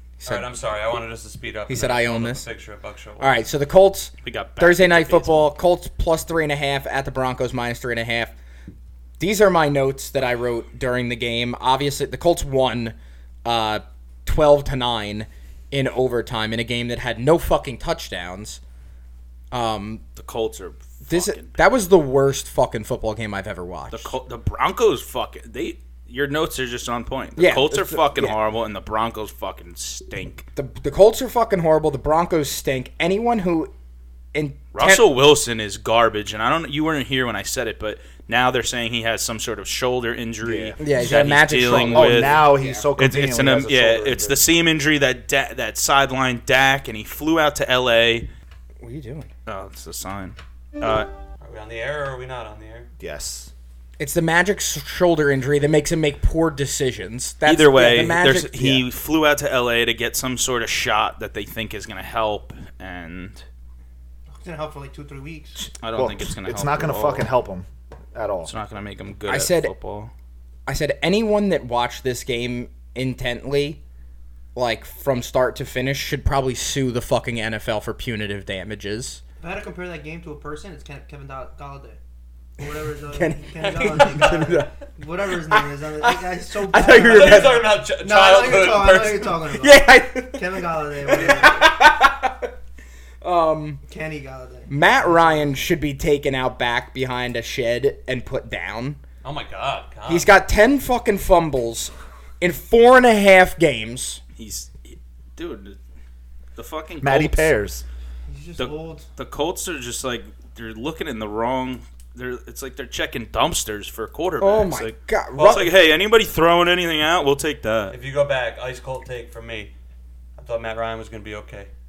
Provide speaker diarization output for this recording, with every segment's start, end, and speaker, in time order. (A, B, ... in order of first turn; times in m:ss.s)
0:00.2-0:00.5 A
0:00.2-0:03.4 B
0:01.7-0:02.5 A
0:03.2-0:08.3 A
0:04.2-0:05.5 C
0:09.2-0:18.6 A
0:19.5-0:20.0 A
0:20.2-0:21.6 C
0:21.1-0:24.1 A
0:23.9-0:30.5 C
0:27.4-0:28.4 A
0:30.6-0:33.7 A
0:34.3-0:35.1 A
0:34.7-0:48.3 C
0:40.4-0:44.5 D
0:40.8-0:42.9 A
0:48.8-0:49.3 A
0:49.5-0:51.1 C
0:51.4-0:52.9 B
0:53.0-0:53.5 D
0:54.0-0:58.8 A
0:57.4-1:03.5 C
1:04.4-1:05.6 E
1:05.6-1:08.5 D
1:05.8-1:07.3 C
1:08.4-1:10.1 C
1:09.3-1:09.7 A
1:10.7-1:13.8 A
1:14.6-1:19.2 A
1:19.4-1:22.0 E
1:22.6-1:31.8 E
1:23.1-1:24.7 A
1:23.8-1:24.3 B
1:25.5-1:27.7 A
1:27.0-1:29.4 B
1:29.5-1:32.5 A
1:33.2-1:33.8 A
1:33.9-1:35.5 E
1:34.7-1:39.0 A
1:39.2-1:40.4 B
1:40.1-1:44.2 A
1:44.4-1:45.8 C
1:46.6-1:47.5 C
1:47.0-1:47.8 D
1:48.3-1:49.1 E
1:48.6-1:58.0 C
1:54.4-1:55.7 A
1:55.4-1:55.7 B
1:57.9-1:59.7 B
2:00.4-2:01.7 B